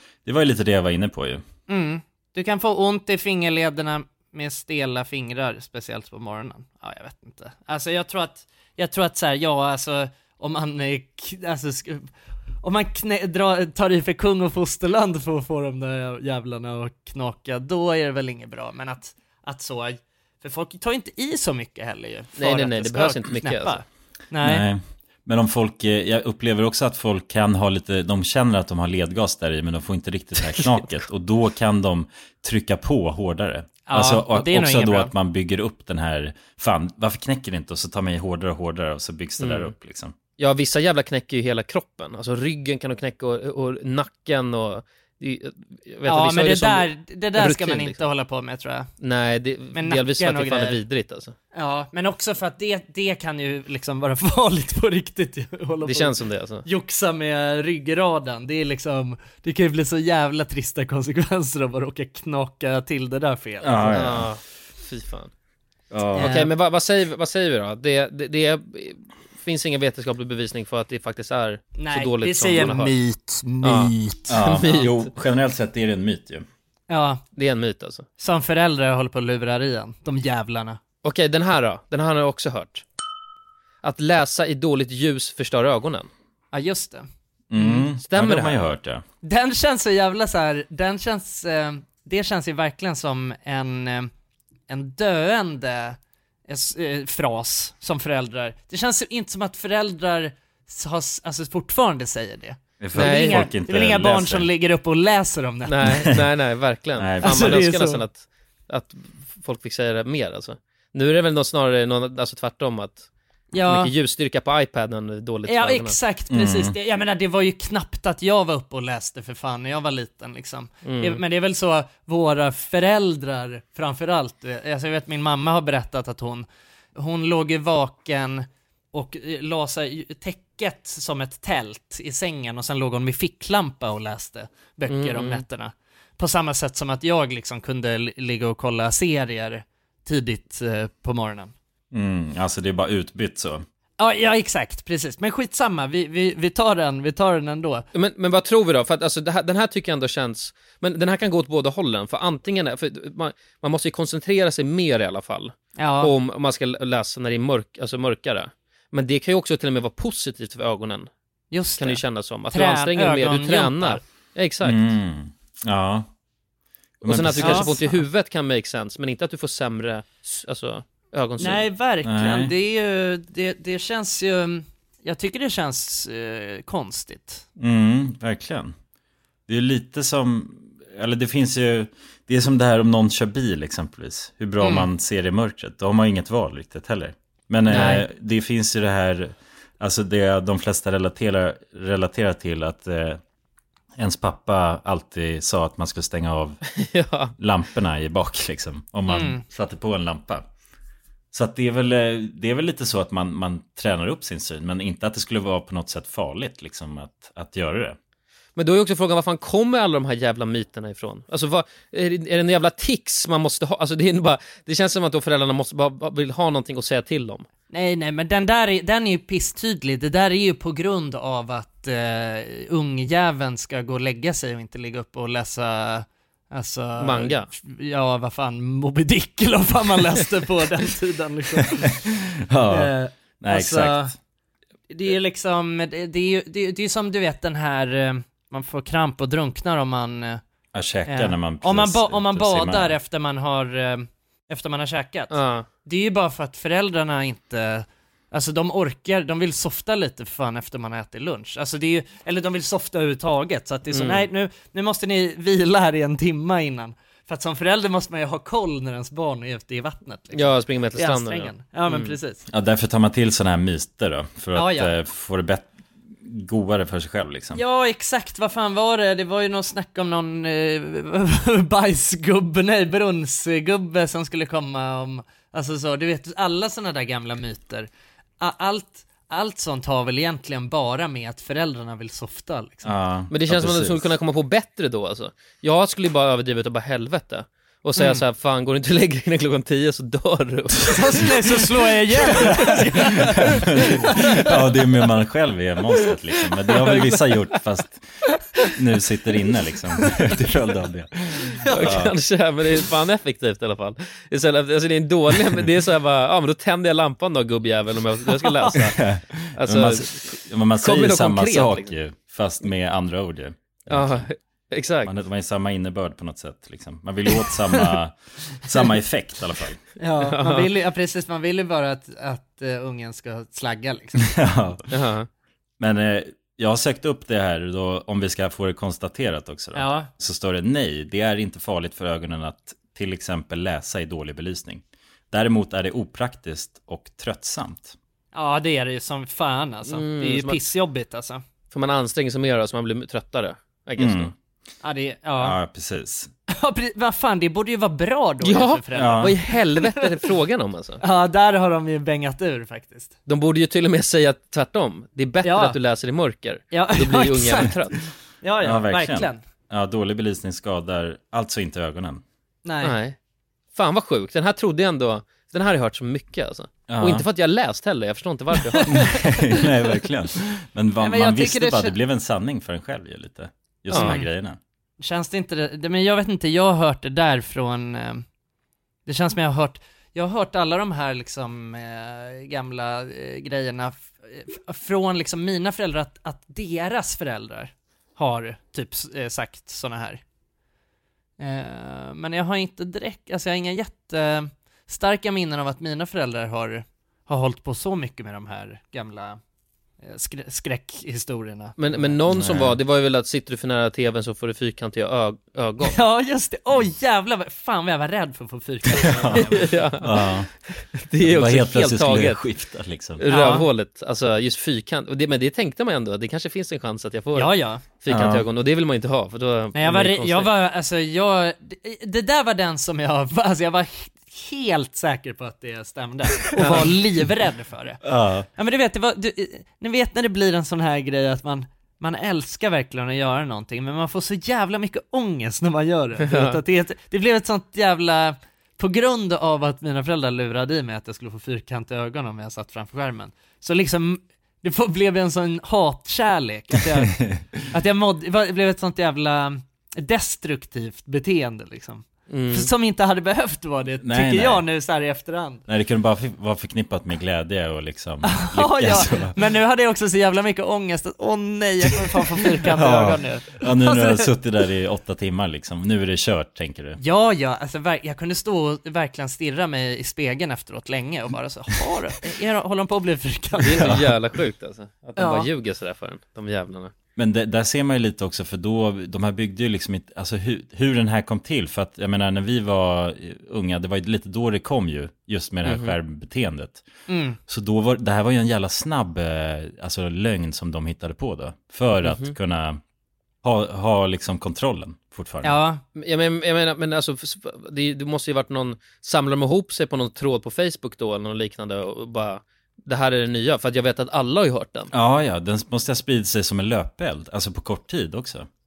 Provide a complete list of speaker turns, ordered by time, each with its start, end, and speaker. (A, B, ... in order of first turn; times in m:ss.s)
0:00.2-0:01.4 A
0:01.7-0:12.1 B
0:12.6-0:24.6 B
0:22.4-0:23.8 C
0:24.4-0:40.2 A
0:30.4-0:31.0 C
0:33.9-0:35.1 B
0:39.4-0:39.7 C
0:40.4-0:48.0 C
0:46.0-0:48.9 B
0:49.0-0:51.4 C
0:49.7-0:50.8 B
0:51.5-1:04.0 B
0:55.9-0:56.6 C
1:03.6-1:04.3 A
1:03.9-1:05.3 C
1:05.9-1:06.4 A
1:06.2-1:06.5 B
1:06.2-1:12.9 C
1:11.8-1:14.4 B
1:13.6-1:14.9 C
1:14.3-1:16.4 A
1:16.9-1:17.2 B
1:17.4-1:18.1 C
1:18.2-1:20.8 B
1:21.0-1:22.8 C
1:23.8-1:26.1 C
1:26.5-1:27.1 B
1:27.5-1:29.0 A
1:27.6-1:27.9 B
1:28.0-1:28.7 C
1:29.2-1:34.1 B
1:34.7-1:46.2 B
1:42.8-1:44.5 A
1:43.0-1:43.5 C
1:45.7-1:53.1 C
1:47.0-1:47.6 A
1:47.2-1:48.0 B
1:53.5-1:53.9 B
1:53.6-1:56.0 C
1:55.5-2:21.5 B
1:56.3-1:56.8 A
2:00.8-2:01.2 C
2:14.9-2:15.4 C
2:21.9-2:23.6 A
2:24.0-2:27.9 B
2:27.9-2:41.1 C
2:35.8-2:36.1 B
2:41.5-2:44.0 B
2:41.8-2:44.9 C
2:44.6-2:46.1 A
2:47.0-2:47.8 A
2:47.0-2:51.7 C
2:47.4-2:47.8 B
2:51.4-2:57.4 B
2:52.0-2:52.5 A
2:57.6-2:58.8 A
2:59.5-3:13.2 A
3:04.6-3:04.9 B
3:07.7-3:08.0 C
3:07.7-3:08.0 B
3:14.0-3:16.6 A
3:16.8-3:17.3 C
3:17.4-3:20.5 A
3:19.1-3:19.4 B
3:21.3-3:28.0 A
3:28.6-3:37.5 C
3:37.7-3:52.1 B
3:47.0-3:47.5 C
3:52.1-3:54.1 A
3:52.7-3:54.1 B
3:54.9-4:00.4 B
4:00.7-4:03.0 A
4:01.1-4:22.4 B
4:05.3-4:05.7 C
4:13.9-4:14.3 C
4:20.3-4:22.2 C
4:22.5-4:25.7 A
4:24.5-4:24.9 B
4:26.2-4:27.6 A
4:27.6-4:37.9 B
4:38.4-4:42.9 B
4:42.8-4:44.1 A
4:43.3-4:51.4 C
4:48.0-4:48.2 B
4:50.9-4:53.4 B
4:52.2-4:52.8 C
4:52.3-4:58.0 A
4:56.7-4:57.3 C
4:58.7-5:02.1 A
5:01.7-5:01.9 B
5:01.7-5:09.0 C
5:08.7-5:14.3 A
5:09.6-5:12.0 C
5:13.9-5:15.1 C
5:15.0-5:19.8 A
5:20.0-5:24.4 B
5:20.2-5:20.7 C
5:24.2-5:24.9 A
5:24.9-5:25.3 C
5:25.8-5:38.0 A
5:29.8-5:30.1 B
5:38.3-5:41.4 B
5:39.9-5:40.6 C
5:41.7-5:44.3 C
5:44.0-5:44.3 A
5:44.8-5:45.6 B
5:45.4-5:46.3 A
5:46.5-5:50.1 B
5:48.4-5:51.0 C
5:48.9-5:49.3 A
5:51.0-5:53.2 B
5:53.3-5:58.0 C
5:55.4-5:55.8 B
5:56.7-5:59.4 B
5:58.6-6:02.2 A
6:02.6-6:03.0 B
6:02.8-6:03.2 C
6:03.8-6:08.9 C
6:06.9-6:07.3 A
6:08.6-6:09.7 B
6:08.9-6:14.6 A
6:11.0-6:12.0 B
6:13.9-6:14.2 C
6:13.9-6:14.3 B
6:15.0-6:18.2 B
6:19.1-6:30.2 B
6:31.4-6:39.4 B
6:40.0-6:42.2 B
6:41.8-6:46.0 C
6:42.3-6:42.8 A
6:45.8-6:49.9 B
6:49.0-6:50.5 A
6:49.4-6:50.1 C
6:50.7-6:52.4 C
6:51.2-6:53.2 A
6:53.2-7:00.5 C
6:53.3-6:53.7 B
6:57.4-6:57.8 B
6:58.1-6:58.4 A
6:59.8-7:08.0 B
7:06.6-7:06.9 C
7:08.0-7:08.5 A
7:08.6-7:35.6 B
7:16.2-7:16.6 C
7:32.3-7:32.7 C
7:34.0-7:34.6 A
7:35.7-7:39.4 A
7:38.3-7:44.3 B
7:42.7-7:47.0 A
7:47.0-7:54.0 B
7:53.6-7:56.9 C
7:53.8-7:54.1 A
7:55.2-7:55.5 B
7:57.2-8:06.9 A
8:05.6-8:06.0 C
8:07.1-8:07.4 B
8:07.5-8:12.8 A
8:12.0-8:12.4 C
8:13.4-8:15.6 A
8:15.4-8:15.8 B
8:16.0-8:24.9 C
8:24.9-8:28.5 A